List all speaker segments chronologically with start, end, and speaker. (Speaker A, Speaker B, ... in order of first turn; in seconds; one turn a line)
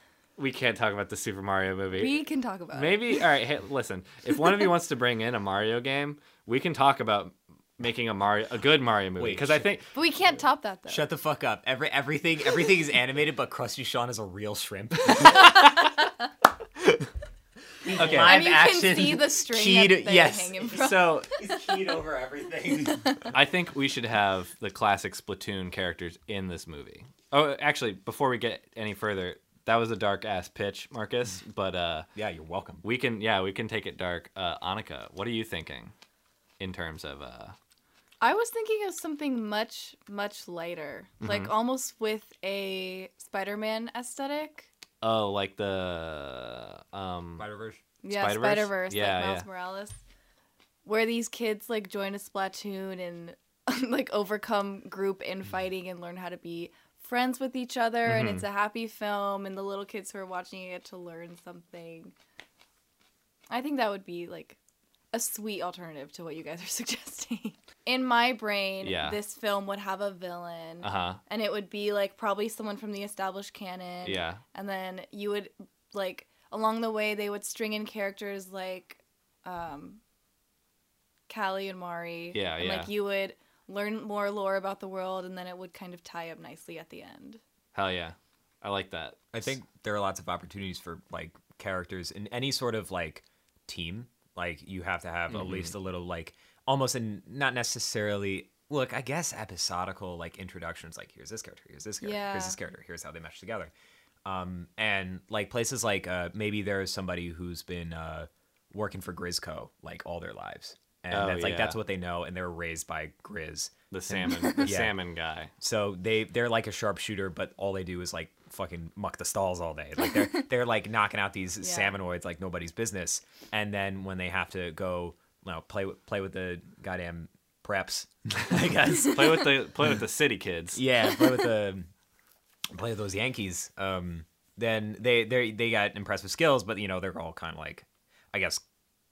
Speaker A: 0.4-2.2
Speaker B: 1.9-3.2
Speaker A: 2.7-9.9
Speaker C: 9.2-9.7
Speaker B: 9.9-11.1
Speaker C: 10.9-15.8
Speaker A: 15.2-15.7
Speaker C: 16.8-17.1
Speaker C: 17.8-23.3
Speaker A: 17.9-18.4
Speaker B: 17.9-21.2
Speaker A: 20.8-21.3
Speaker B: 23.0-23.3
Speaker A: 23.3-32.1
Speaker C: 32.2-32.8
Speaker A: 32.8-35.9
Speaker A: 36.6-37.6
Speaker B: 38.2-44.7
Speaker A: 41.2-41.5
Speaker A: 45.0-47.5
Speaker C: 47.4-47.8
Speaker B: 48.0-50.0
Speaker A: 48.1-49.5
Speaker B: 50.9-62.1
Speaker A: 58.0-58.4
Speaker B: 63.5-64.6
Speaker B: 65.1-80.0
Speaker A: 68.8-69.2
Speaker A: 70.8-71.2
Speaker A: 74.0-74.4
Speaker B: 81.3-87.4
Speaker A: 82.3-82.9
Speaker A: 87.7-89.3
Speaker C: 89.3-103.7
Speaker A: 95.3-95.7
Speaker B: 102.0-102.6
Speaker C: 104.3-115.0
Speaker A: 111.1-111.8
Speaker A: 113.9-115.5
Speaker C: 115.6-129.6
Speaker B: 121.6-122.0
Speaker A: 129.0-130.8
Speaker C: 130.8-131.9
Speaker C: 132.7-138.6